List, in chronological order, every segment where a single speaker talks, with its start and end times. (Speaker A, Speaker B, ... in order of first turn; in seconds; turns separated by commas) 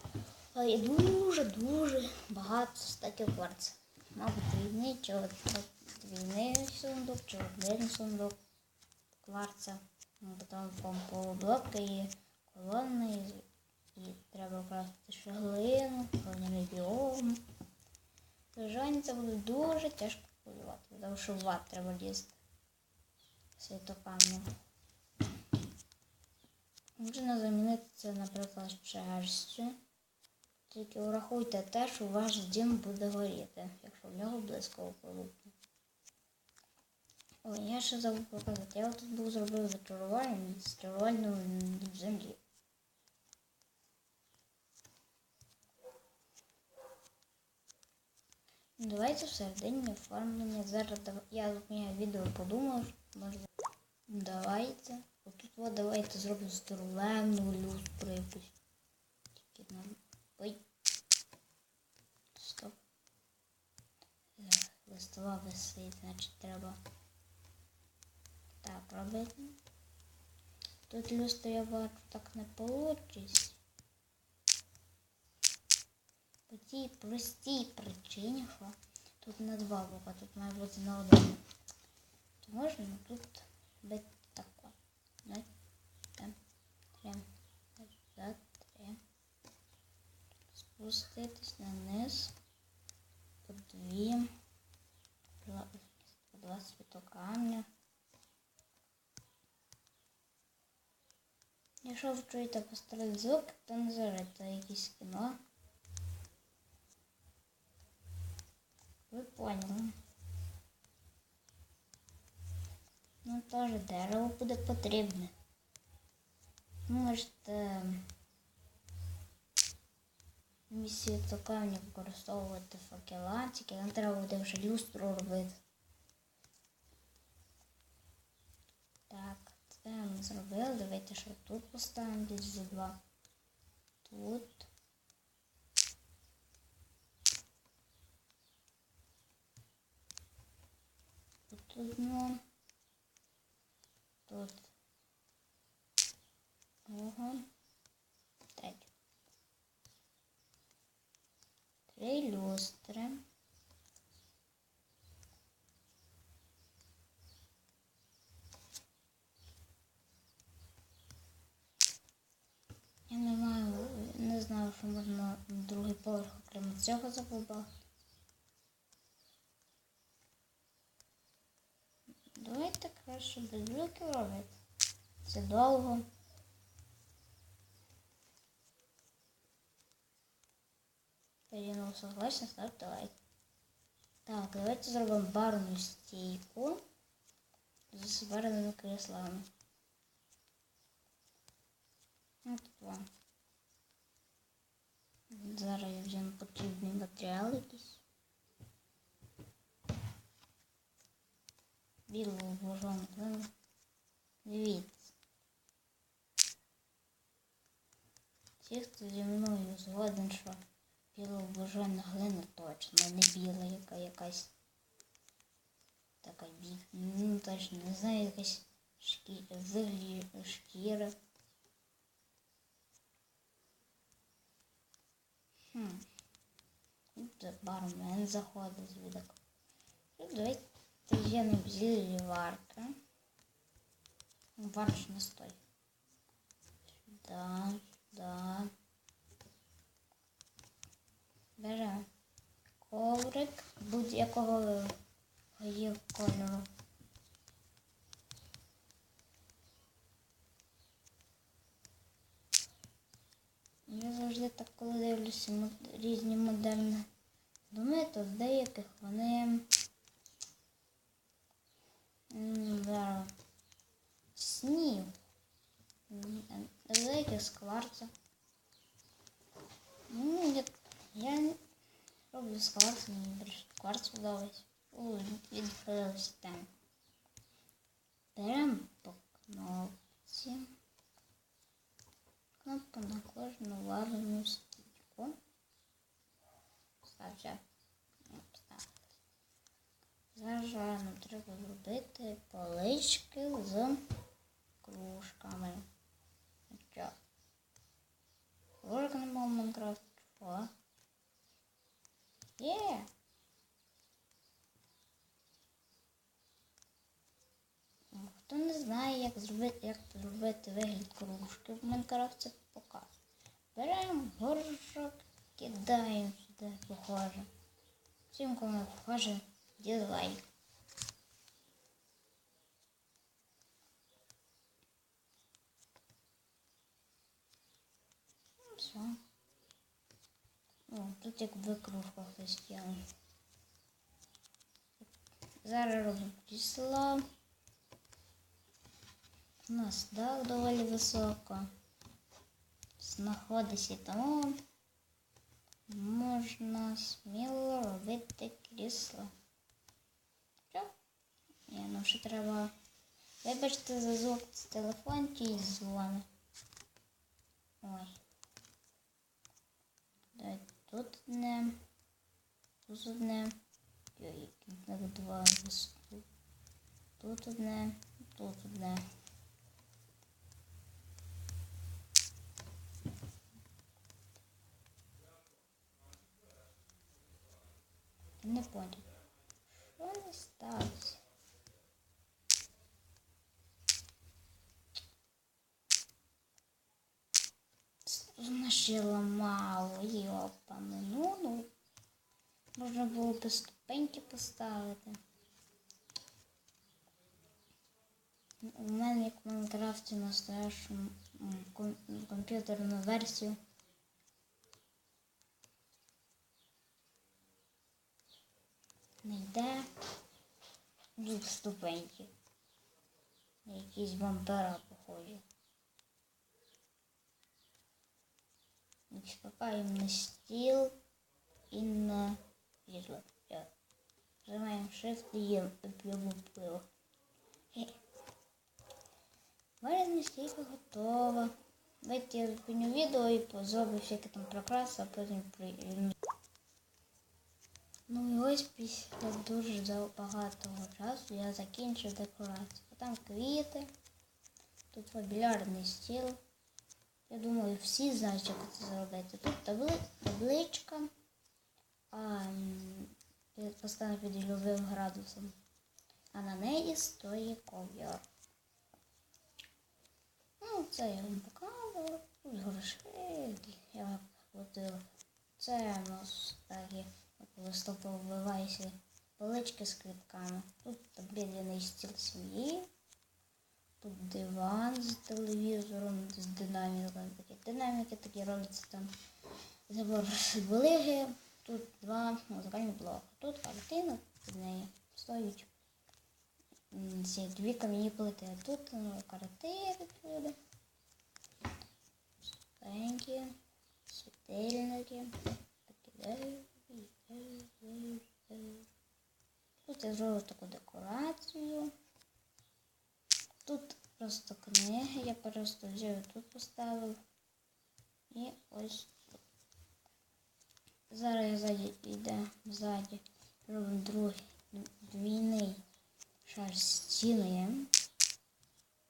Speaker A: 0.5-8.4, Speaker A: 9.2-17.4, Speaker A: 18.5-22.4, Speaker A: 23.6-24.5, Speaker A: 27.0-29.8, Speaker A: 30.7-35.5, Speaker A: 37.4-42.4, Speaker A: 48.8-53.5, Speaker A: 54.1-58.5, Speaker A: 59.3-60.6, Speaker A: 62.4-62.8, Speaker A: 64.4-66.8, Speaker A: 68.6-69.6, Speaker A: 70.9-73.6, Speaker A: 76.5-81.4, Speaker A: 82.4-85.5, Speaker A: 87.0-89.0, Speaker A: 90.5-92.3, Speaker A: 93.5-94.3, Speaker A: 95.4-97.7, Speaker A: 101.8-105.4, Speaker A: 109.1-110.0, Speaker A: 113.2-115.3, Speaker A: 116.9-118.1, Speaker A: 120.7-125.6, Speaker A: 129.1-133.0, Speaker A: 134.0-134.7, Speaker A: 141.5-142.4, Speaker A: 144.3-144.7, Speaker A: 146.9-147.5, Speaker A: 148.5-148.9, Speaker A: 151.9-153.2, Speaker A: 163.1-167.7, Speaker A: 172.3-174.6, Speaker A: 175.2-176.1, Speaker A: 181.5-183.1, Speaker A: 184.3-186.8, Speaker A: 187.9-189.5, Speaker A: 192.4-193.1, Speaker A: 195.3-198.0, Speaker A: 202.1-203.5, Speaker A: 204.4-205.1, Speaker A: 208.6-210.6, Speaker A: 211.1-214.5, Speaker A: 216.2-221.2, Speaker A: 225.7-226.1, Speaker A: 227.2-229.4, Speaker A: 230.2-233.0, Speaker A: 234.6-235.6, Speaker A: 237.0-238.7, Speaker A: 241.6-242.1, Speaker A: 242.8-245.0, Speaker A: 245.6-246.7, Speaker A: 253.9-257.1, Speaker A: 257.7-259.7, Speaker A: 262.3-263.3, Speaker A: 264.4-265.2, Speaker A: 266.1-268.1, Speaker A: 270.1-271.6, Speaker A: 272.3-276.7, Speaker A: 278.4-280.7, Speaker A: 282.6-285.4, Speaker A: 287.0-287.6, Speaker A: 288.3-289.0, Speaker A: 290.3-294.1, Speaker A: 294.8-295.9, Speaker A: 296.7-297.1, Speaker A: 298.8-300.7, Speaker A: 302.6-303.1, Speaker A: 308.1-313.1, Speaker A: 313.8-317.5, Speaker A: 318.3-320.5, Speaker A: 328.6-329.2, Speaker A: 330.9-333.0, Speaker A: 335.6-337.3, Speaker A: 339.7-341.7, Speaker A: 343.0-344.6, Speaker A: 345.9-349.3, Speaker A: 351.7-352.7, Speaker A: 353.4-356.3, Speaker A: 357.8-358.2, Speaker A: 360.4-361.8, Speaker A: 362.9-363.6, Speaker A: 364.1-366.3, Speaker A: 367.2-369.0, Speaker A: 378.4-379.1, Speaker A: 379.7-381.2, Speaker A: 388.1-391.7, Speaker A: 392.8-395.2, Speaker A: 398.6-403.6, Speaker A: 409.2-409.9, Speaker A: 411.2-412.3, Speaker A: 413.6-415.4, Speaker A: 419.1-421.0, Speaker A: 421.7-423.7, Speaker A: 424.4-426.9, Speaker A: 427.7-428.0, Speaker A: 429.8-436.2, Speaker A: 438.1-443.9, Speaker A: 444.9-446.4, Speaker A: 447.3-451.1, Speaker A: 452.1-455.6, Speaker A: 456.3-458.2, Speaker A: 460.6-472.9, Speaker A: 474.0-479.1, Speaker A: 479.9-485.7, Speaker A: 486.9-490.6, Speaker A: 492.4-493.6, Speaker A: 494.1-495.3, Speaker A: 495.9-498.9, Speaker A: 499.8-501.9, Speaker A: 503.6-507.2, Speaker A: 508.3-509.4, Speaker A: 511.1-515.8, Speaker A: 516.4-517.9